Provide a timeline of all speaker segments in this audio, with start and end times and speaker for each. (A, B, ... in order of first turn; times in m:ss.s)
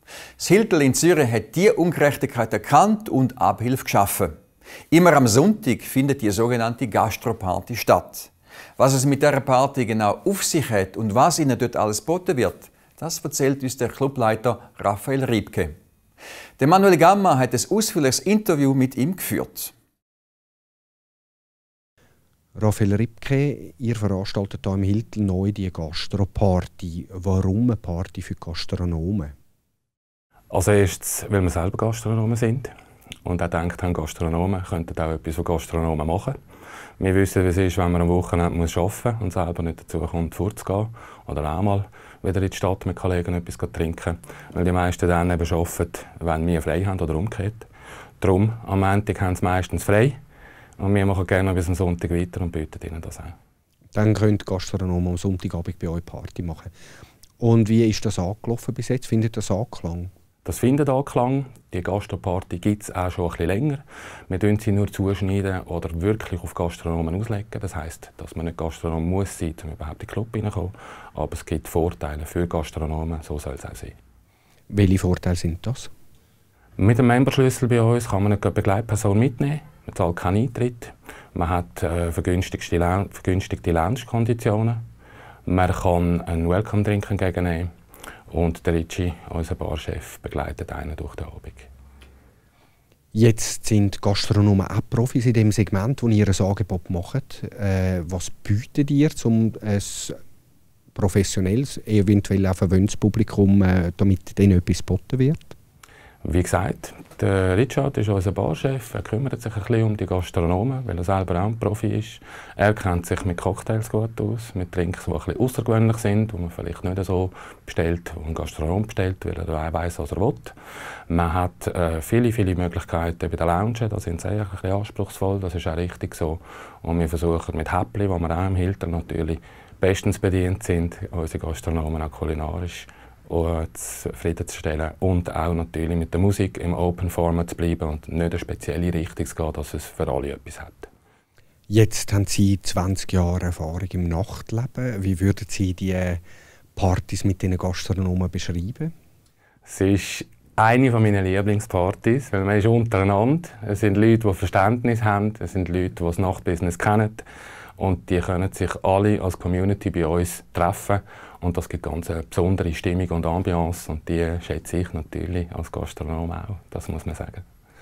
0:00.4-0:04.4 A
0:04.9-0:15.7 A
0:16.6-0:19.7 A
0:22.6-0:29.3 B
0:30.5-0:32.7 C
0:33.2-0:36.4 C
0:37.0-0:47.7 C
0:48.2-0:50.2 C
0:50.8-0:53.3 C
0:53.9-0:56.7 B
0:57.4-1:00.1 B
1:00.4-1:14.0 C
1:14.7-1:15.9 B
1:16.8-1:24.8 C
1:25.4-1:27.7 C
1:28.3-1:31.7 C
1:33.1-1:40.2 B
1:40.9-1:45.5 B
1:46.2-2:00.5 C
2:01.1-2:20.9 C
2:21.7-2:26.2 B
2:26.7-2:28.9 B
2:29.6-2:37.2 C
2:37.8-2:47.4 C